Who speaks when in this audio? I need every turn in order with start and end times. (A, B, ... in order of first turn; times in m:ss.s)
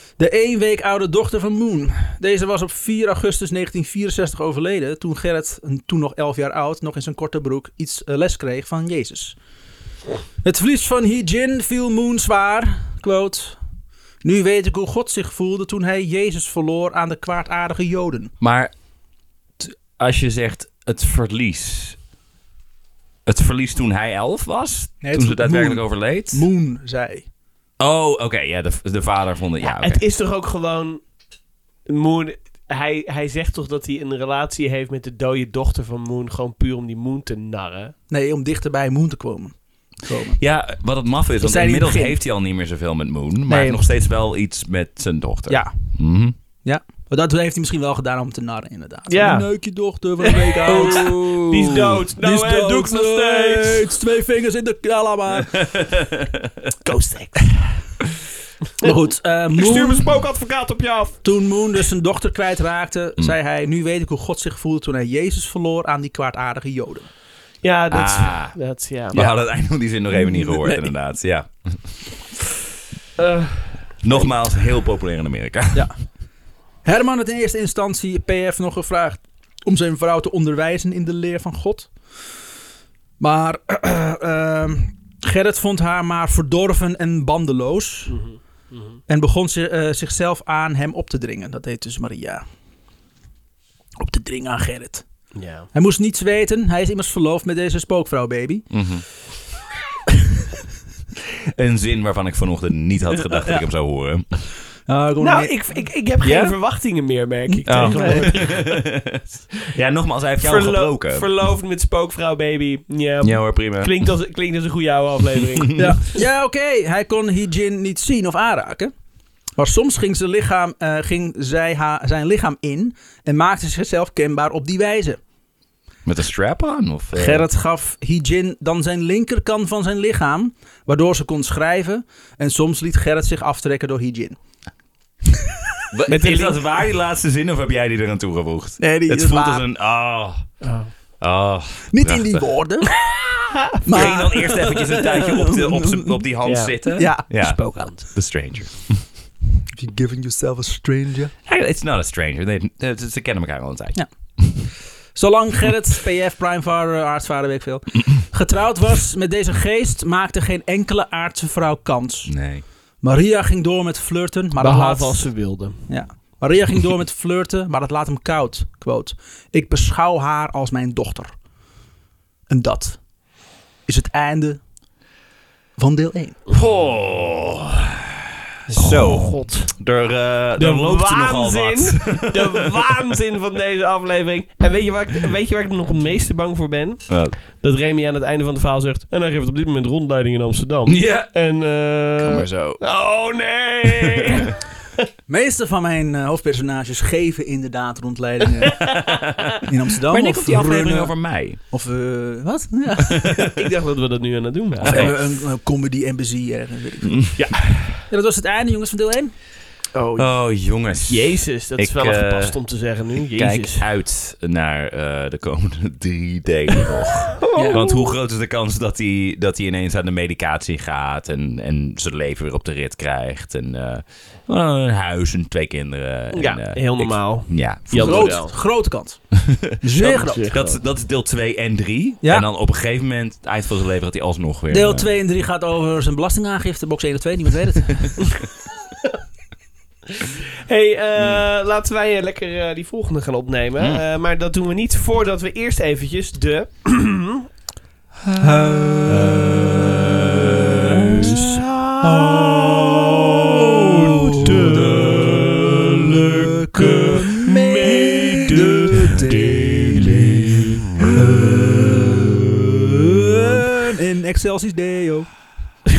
0:00.2-0:09.4 A
0:10.4-0:13.6 A
0:14.2-0:18.3 A
0:18.4-0:18.7 B
0:19.6-0:22.0 B
0:23.3-0:26.4 B
0:25.0-0:27.3 A
0:27.8-0:30.0 B
0:29.6-0:31.0 C
0:31.9-0:38.0 C
0:38.1-0:40.4 A
0:40.4-0:46.4 B
0:41.4-0:42.2 A
0:43.5-0:43.8 A
0:45.5-0:46.0 A
0:46.6-0:51.1 A
0:49.1-0:53.9 C
0:50.7-0:52.0 B
0:52.2-0:55.6 A
0:55.5-0:56.5 B
0:56.8-0:57.4 C
0:58.8-1:00.1 A
0:59.6-1:01.2 C
1:01.2-1:07.1 A
1:07.6-1:09.3 C
1:07.9-1:08.6 B
1:09.1-1:12.1 B
1:10.1-1:10.9 A
1:13.2-1:14.3 C
1:14.0-1:15.9 B
1:16.8-1:21.9 A
1:23.2-1:28.2 A
1:28.1-1:29.0 C
1:29.1-1:32.4 A
1:34.0-1:35.1 A
1:35.3-1:35.7 C
1:35.7-1:38.7 A
1:38.7-1:39.0 B
1:41.4-1:44.4 B
1:44.9-1:46.6 A
1:45.2-1:48.8 C
1:47.5-1:48.3 A
1:47.7-1:51.3 B
1:50.4-1:56.2 C
1:53.2-1:53.9 B
1:55.8-1:58.9 A
1:59.6-2:05.2 A
2:06.1-2:07.4 B
2:07.2-2:14.4 A
2:15.9-2:20.5 B
2:16.1-2:16.6 C
2:18.8-2:19.7 A
2:20.6-2:20.9 C
2:21.2-2:22.4 B
2:21.9-2:22.9 A
2:23.1-2:23.7 C
2:23.8-2:26.3 A
2:23.9-2:29.0 B
2:26.4-2:28.0 C
2:26.9-2:27.9 A
2:29.8-2:31.3 A
2:31.5-2:34.0 B
2:35.2-2:42.3 A
2:42.3-2:42.6 B
2:43.0-2:45.3 A
2:44.6-2:45.8 C
2:45.9-2:51.3 A
2:52.5-2:53.0 A
2:53.9-2:54.6 A
2:55.8-2:56.4 A
2:56.5-3:02.8 B
2:58.7-2:59.7 C
3:00.6-3:15.0 C
3:07.1-3:07.4 B
3:10.9-3:11.3 B
3:12.2-3:12.8 B
3:13.9-3:14.5 B
3:15.3-3:18.8 A
3:18.8-3:21.6 B
3:19.6-3:23.5 A
3:23.1-3:23.5 B
3:23.5-3:25.2 C
3:24.8-3:25.2 B
3:24.8-3:27.2 A
3:27.1-3:27.6 B
3:27.4-3:27.9 C
3:28.1-3:29.3 A
3:29.9-3:30.4 C
3:30.2-3:32.6 B
3:31.1-3:33.8 C
3:33.3-3:48.5 B
3:37.4-3:38.1 C
3:37.6-3:37.8 A
3:46.3-3:48.6 C
3:47.9-3:50.5 A
3:49.4-3:49.7 B
3:50.0-3:50.8 C
3:50.4-3:55.1 B
3:54.7-3:58.3 A
4:00.2-4:07.4 C
4:08.4-4:09.9 A
4:09.2-4:10.1 B
4:10.5-4:25.3 A
4:11.1-4:12.5 C
4:14.1-4:15.4 C
4:14.6-4:16.3 B
4:16.8-4:20.5 C